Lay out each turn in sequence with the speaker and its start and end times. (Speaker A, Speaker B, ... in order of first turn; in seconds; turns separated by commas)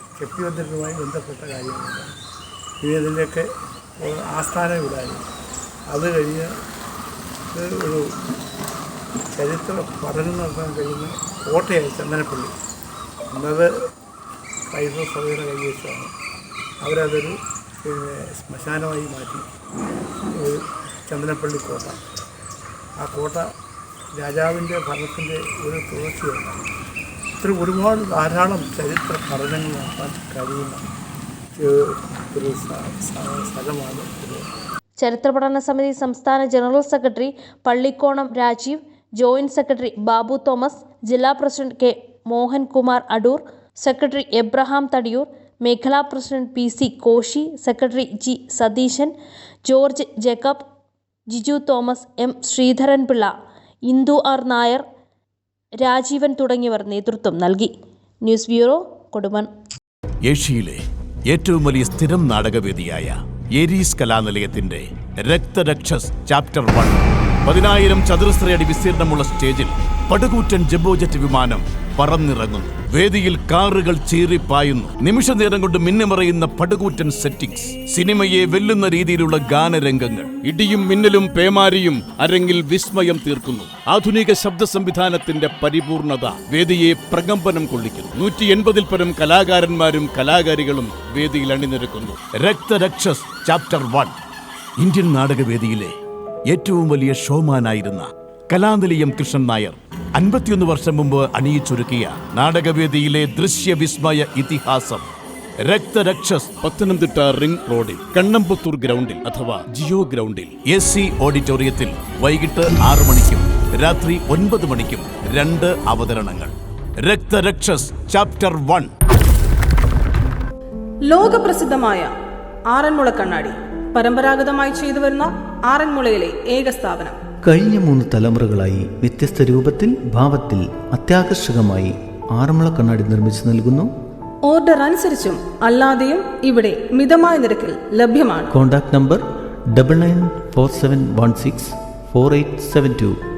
Speaker A: 0.2-2.1, Speaker A: 2.8-3.5, Speaker A: 4.0-5.2, Speaker A: 5.9-6.5, Speaker A: 7.5-8.1, Speaker A: 9.3-12.5, Speaker A: 13.3-13.7, Speaker A: 14.7-16.1, Speaker A: 16.8-19.4, Speaker A: 20.4-22.0, Speaker A: 23.0-23.5, Speaker A: 24.1-26.6, Speaker A: 27.4-30.8, Speaker A: 31.6-34.5, Speaker B: 35.0-49.1, Speaker B: 49.6-50.6, Speaker B: 51.3-53.3, Speaker B: 53.9-54.8, Speaker B: 55.8-57.7, Speaker B: 58.2-59.5, Speaker C: 60.2-94.1, Speaker C: 94.8-95.9, Speaker C: 96.5-105.1, Speaker C: 105.6-118.9, Speaker D: 121.1-122.1, Speaker D: 122.7-127.2, Speaker E: 127.4-133.9, Speaker D: 134.5-138.5, Speaker E: 138.5-143.2